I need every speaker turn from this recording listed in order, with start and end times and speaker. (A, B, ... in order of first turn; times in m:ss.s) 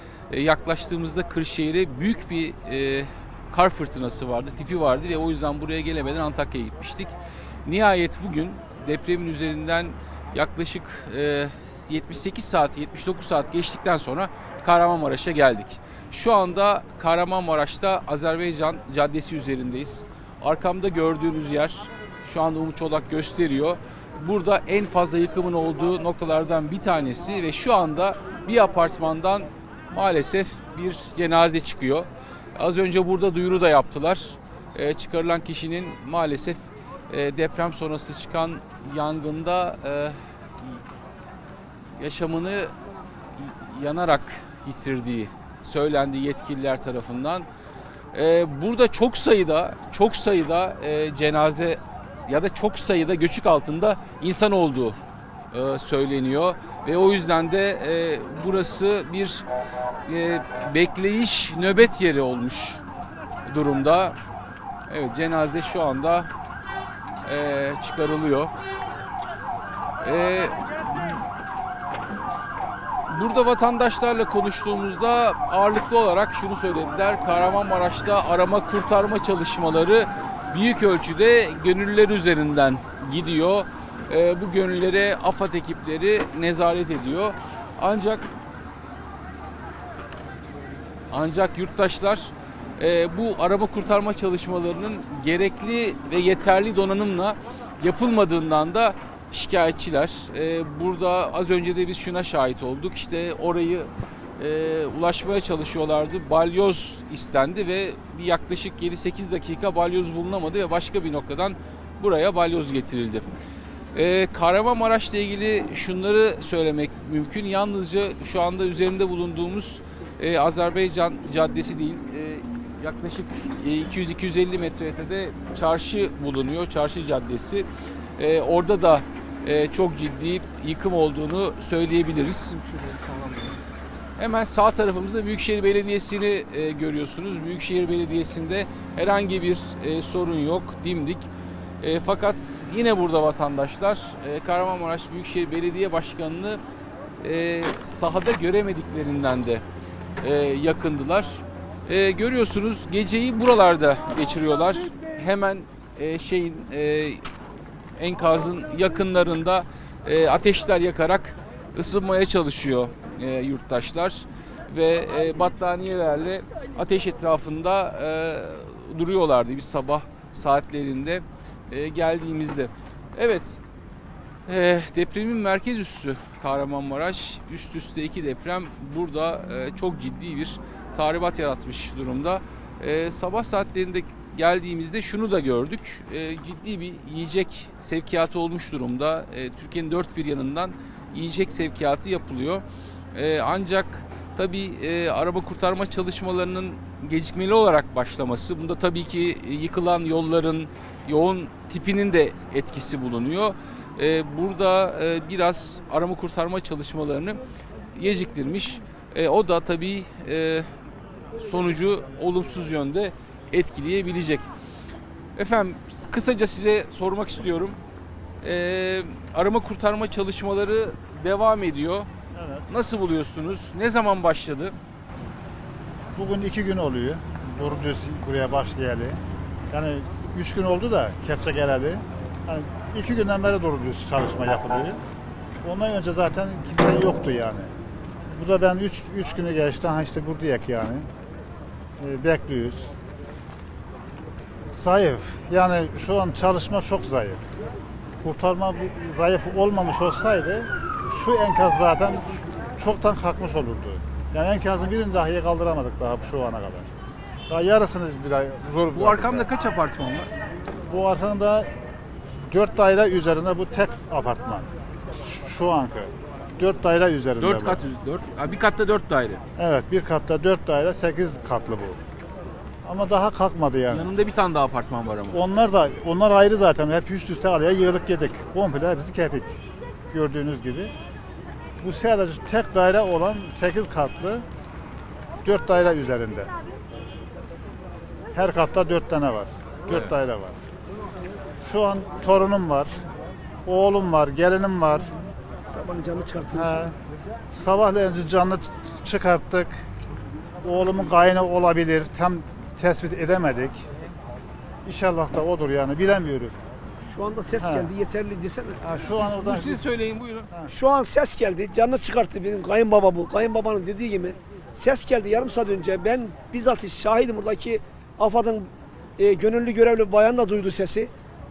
0:00.3-0:07.2 A
0:07.6-0:40.2 A
0:42.0-0:42.7 A
0:43.4-0:47.5 A
0:48.1-0:55.0 A
0:55.5-0:59.5 A
1:00.0-1:02.8 A
1:03.5-1:04.2 A
1:04.9-1:06.3 A
1:07.2-1:08.5 A
1:10.0-1:11.1 A
1:13.1-1:28.3 A
1:31.1-1:53.2 A
1:53.9-2:13.6 A
2:14.2-2:21.3 A
2:21.8-2:26.6 A
2:27.2-2:29.6 A
2:30.2-2:37.2 A
2:38.0-2:53.6 A
2:54.5-3:27.4 A
3:27.9-3:30.7 A
3:31.4-3:34.5 A
3:35.4-3:37.8 A
3:38.4-3:42.1 A
3:42.3-3:42.7 B
3:42.7-3:44.8 A
3:46.2-3:55.0 B
3:55.6-3:57.7 B
3:58.3-4:01.1 B
4:02.0-4:02.9 B
4:04.7-4:07.4 B
4:08.2-4:16.9 B
4:17.5-4:19.5 B
4:18.9-4:20.3 A
4:20.9-4:21.7 B
4:22.5-4:24.7 B
4:25.2-4:27.8 B
4:27.4-4:29.4 A
4:29.6-4:32.0 B
4:32.8-4:34.1 B
4:33.9-4:35.4 A
4:35.3-4:39.6 B
4:40.1-4:40.9 B
4:41.8-4:44.4 B
4:45.4-4:46.5 B
4:48.3-4:50.6 B
4:51.6-4:53.0 B
4:53.6-4:55.1 B
4:55.7-4:56.7 C
4:56.5-4:57.0 B
4:57.5-4:59.8 B
5:00.6-5:03.8 B
5:04.8-5:06.6 B
5:07.1-5:08.8 C
5:07.6-5:07.9 B
5:08.8-5:09.8 B
5:09.0-5:10.5 A
5:10.7-5:21.1 C